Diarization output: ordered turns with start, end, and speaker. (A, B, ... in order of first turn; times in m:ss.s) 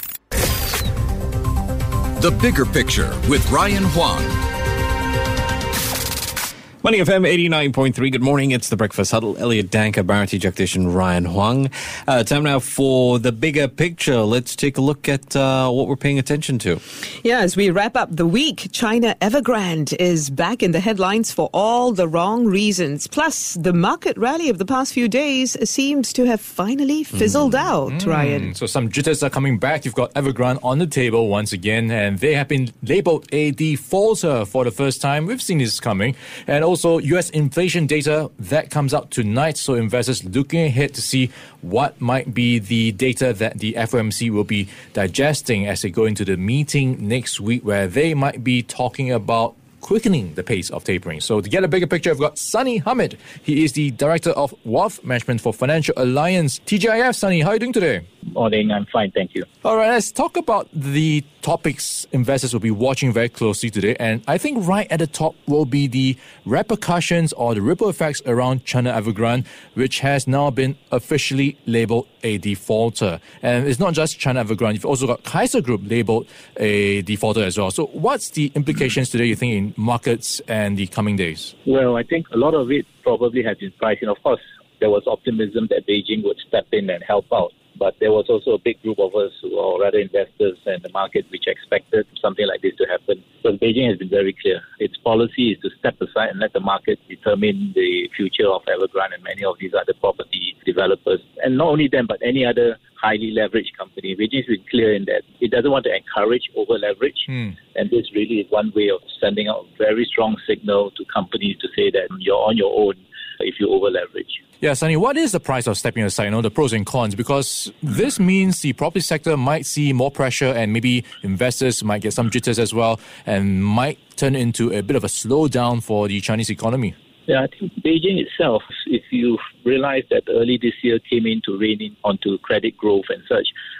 0:02.2-0:04.4 A
0:06.8-0:16.8 B
0:17.2-0:28.5 C
0:27.2-0:58.0 D
0:58.3-0:59.5 E
0:59.6-1:21.5 D
1:21.6-1:54.4 E
1:54.6-2:06.9 D
2:07.3-2:13.5 E